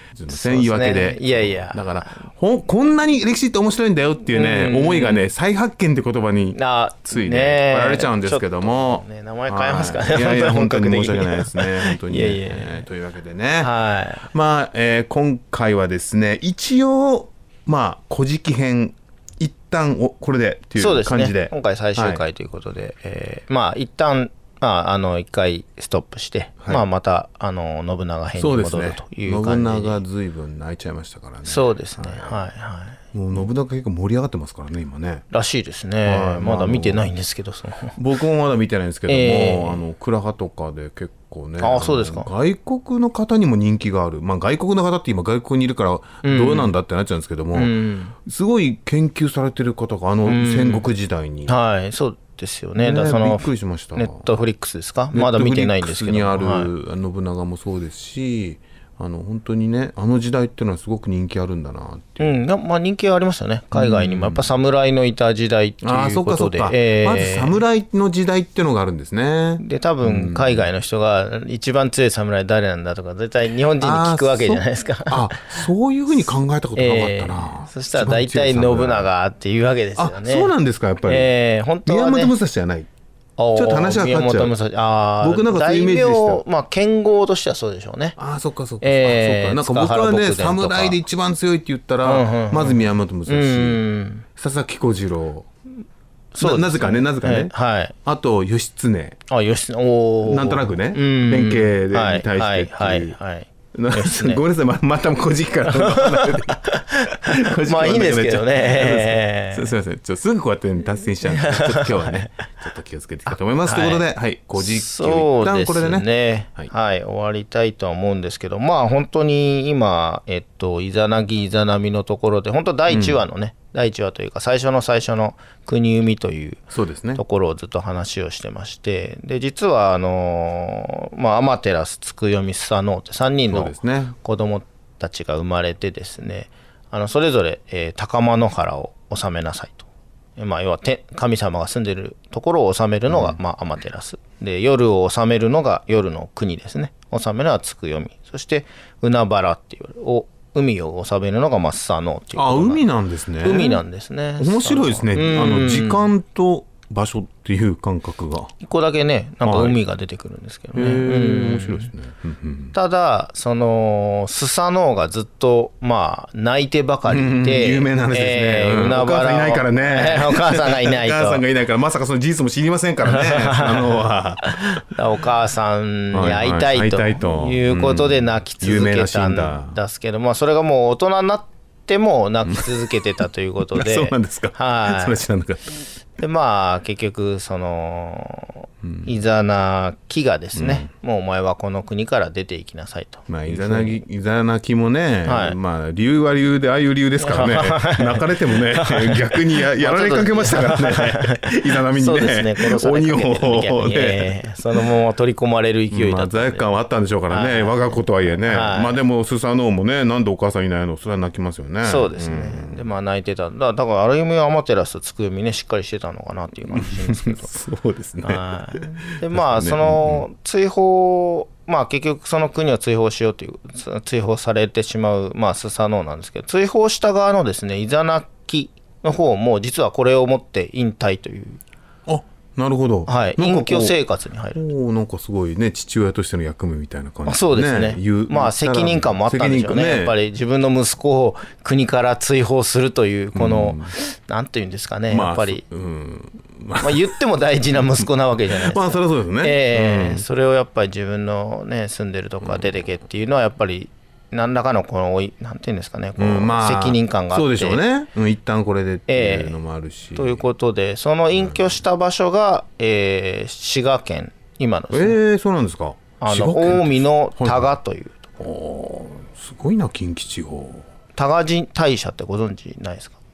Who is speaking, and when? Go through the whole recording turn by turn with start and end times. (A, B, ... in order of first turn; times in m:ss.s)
0:00.1-0:06.6 A
0:00.3-0:02.3 B
0:04.3-0:05.2 B
0:06.6-0:12.8 B
0:07.1-0:13.7 A
0:13.6-0:14.3 B
0:14.3-0:22.2 A
0:20.8-0:30.0 B
0:28.4-0:32.4 A
0:31.4-0:33.4 B
0:33.1-0:35.2 A
0:35.3-0:38.0 B
0:36.0-0:37.1 A
0:38.0-0:47.7 A
0:39.1-0:39.8 B
0:41.6-0:42.3 B
0:46.2-0:46.7 B
0:47.5-0:48.2 B
0:48.2-0:51.5 A
0:50.3-0:50.9 B
0:51.5-0:56.7 B
0:52.8-0:54.2 A
0:55.1-1:02.4 A
1:02.2-1:07.6 B
1:03.7-1:04.5 A
1:05.8-1:10.7 A
1:09.6-1:15.6 B
1:13.8-1:19.1 A
1:16.8-1:20.5 B
1:20.0-1:21.3 A
1:21.1-1:22.3 B
1:21.9-1:22.9 A
1:23.4-1:28.2 B
1:23.5-1:24.6 A
1:25.2-1:26.4 A
1:28.2-1:33.8 A
1:28.8-1:31.0 B
1:32.0-1:34.2 B
1:34.4-1:35.5 A
1:36.4-1:38.0 B
1:36.4-1:37.5 A
1:38.0-1:39.2 A
1:39.3-1:44.4 B
1:40.2-1:43.2 A
1:43.7-1:56.7 A
1:45.7-1:46.8 B
1:47.4-1:49.8 B
1:51.2-1:52.3 B
1:53.3-2:06.6 B
2:02.9-2:03.2 A
2:06.7-2:07.2 A
2:07.2-2:19.8 B
2:13.5-2:14.2 A
2:20.4-2:32.8 B
2:23.1-2:23.4 A
2:32.4-2:33.8 A
2:33.4-2:36.1 B
2:34.4-2:38.5 A
2:38.6-2:41.9 B
2:39.4-2:39.8 A
2:40.7-2:42.8 A
2:42.7-2:51.4 B
2:47.1-2:54.8 A
2:53.0-3:05.2 B
2:56.1-2:59.8 A
3:02.5-3:02.9 A
3:03.7-3:05.7 A
3:06.2-3:14.0 B
3:08.8-3:09.1 A
3:10.6-3:10.9 A
3:13.3-3:24.8 A
3:15.3-3:15.6 B
3:17.2-3:26.6 B
3:25.9-3:32.9 A
3:27.3-3:29.0 B
3:31.8-3:37.5 B
3:36.7-3:40.2 A
3:38.2-3:51.6 B
3:52.1-3:54.0 A
3:53.1-3:54.6 B
3:54.5-4:00.1 A
3:57.3-4:05.6 B
4:03.3-4:04.0 A
4:05.1-4:07.1 A
4:06.8-4:17.8 B
4:07.8-4:10.2 A
4:12.4-4:12.7 A
4:16.2-4:20.5 A
4:19.1-4:19.6 B
4:20.2-4:25.2 B
4:21.3-4:21.8 A
4:24.9-4:27.8 A
4:26.2-4:28.3 B
4:28.4-4:30.9 A
4:31.2-4:33.2 B